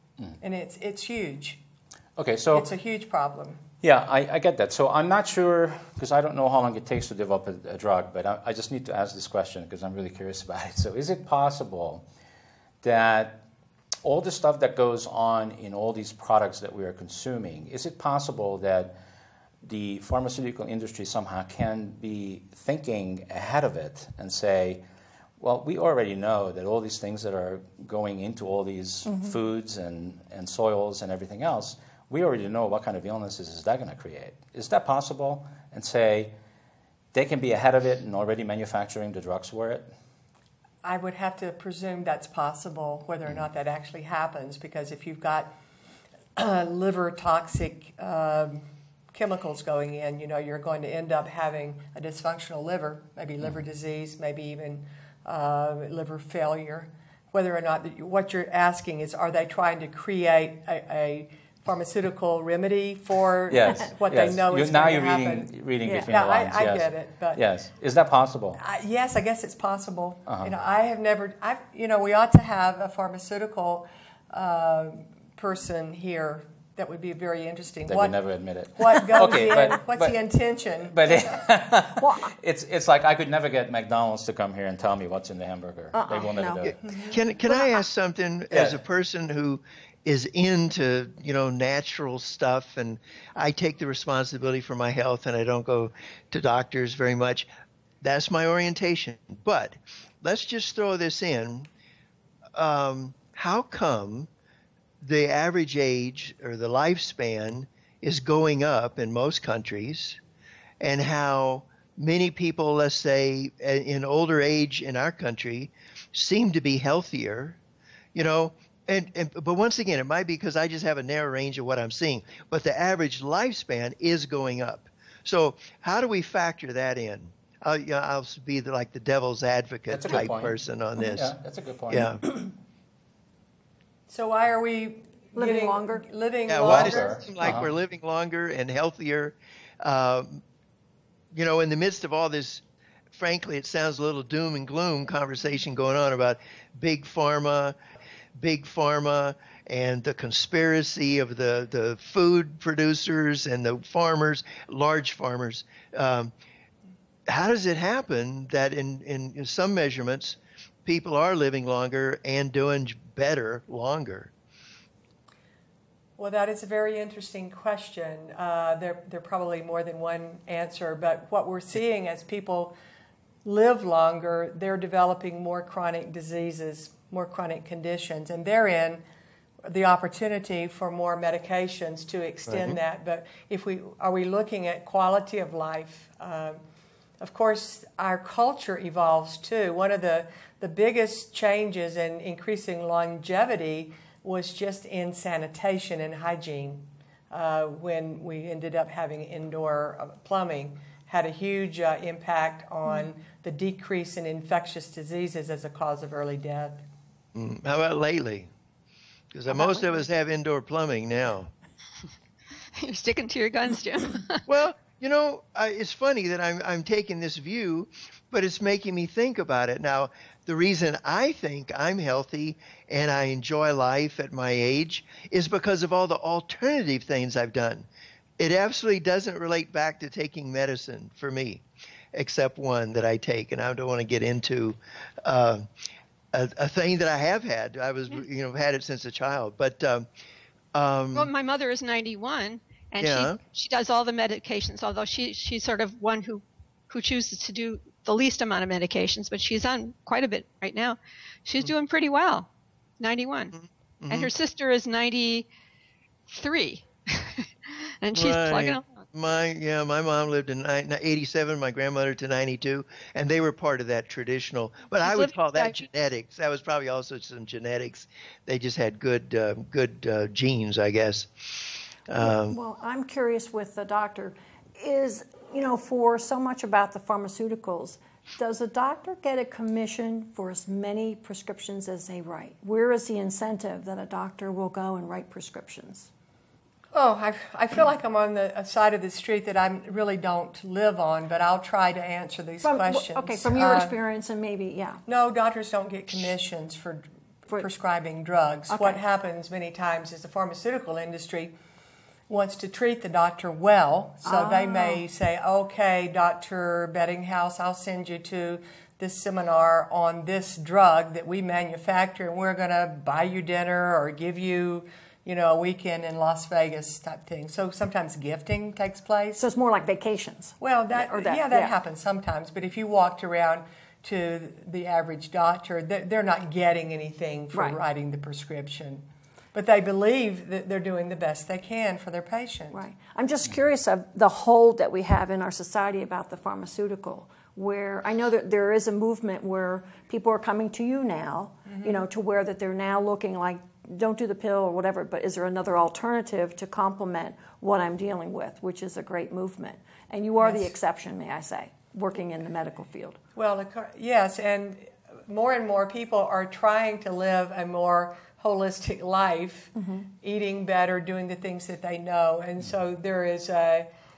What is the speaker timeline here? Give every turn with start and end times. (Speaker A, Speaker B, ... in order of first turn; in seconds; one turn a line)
Speaker A: 0.4-1.6
Speaker B: 2.2-2.7
Speaker A: 2.5-3.6
Speaker B: 3.8-12.0
Speaker B: 12.8-13.4
Speaker B: 14.0-18.9
Speaker B: 19.6-24.8
Speaker B: 25.4-36.3
Speaker B: 37.1-39.9
Speaker A: 40.8-45.5
Speaker A: 46.4-67.4
Speaker B: 63.5-68.6
Speaker C: 65.8-66.1
Speaker A: 68.6-78.2
Speaker B: 70.3-70.5
Speaker B: 77.9-80.2
Speaker A: 78.7-81.4
Speaker B: 80.8-86.8
Speaker C: 82.0-82.3
Speaker C: 85.9-86.7
Speaker D: 86.6-97.5
Speaker A: 86.8-87.2
Speaker C: 87.5-87.8
Speaker B: 88.5-88.8
Speaker D: 98.0-101.7
Speaker D: 102.5-104.3
Speaker D: 105.0-110.2
Speaker D: 110.8-117.6
Speaker D: 118.1-131.3
Speaker B: 129.9-132.2
Speaker D: 131.9-132.2
Speaker A: 134.1-137.3
Speaker C: 135.3-136.0
Speaker D: 136.5-140.4
Speaker B: 136.6-137.7
Speaker D: 141.3-147.8
Speaker D: 148.3-156.3
Speaker D: 157.3-164.3
Speaker A: 166.2-172.8
Speaker A: 173.4-179.0
Speaker A: 179.6-186.6
Speaker D: 182.5-182.8
Speaker A: 187.2-206.8
Speaker D: 207.3-208.5
Speaker D: 209.3-211.5
Speaker E: 212.8-214.4
Speaker D: 214.5-227.9
Speaker D: 228.4-235.7
Speaker D: 236.3-240.1
Speaker D: 240.7-241.3
Speaker E: 241.1-252.5
Speaker D: 243.0-243.4
Speaker E: 253.0-253.5
Speaker D: 253.6-254.3
Speaker E: 254.1-255.5
Speaker E: 256.3-259.0
Speaker D: 258.1-272.6
Speaker E: 265.0-265.8
Speaker C: 272.2-286.1
Speaker A: 286.9-294.0
Speaker C: 292.6-295.0
Speaker A: 295.1-301.5
Speaker C: 298.7-299.0
Speaker A: 302.3-319.4
Speaker C: 304.2-305.0
Speaker C: 319.4-321.7
Speaker A: 320.6-332.8
Speaker C: 327.5-327.8
Speaker C: 332.7-353.2
Speaker A: 341.6-342.0
Speaker A: 350.4-350.7
Speaker A: 353.4-363.9
Speaker C: 359.8-360.0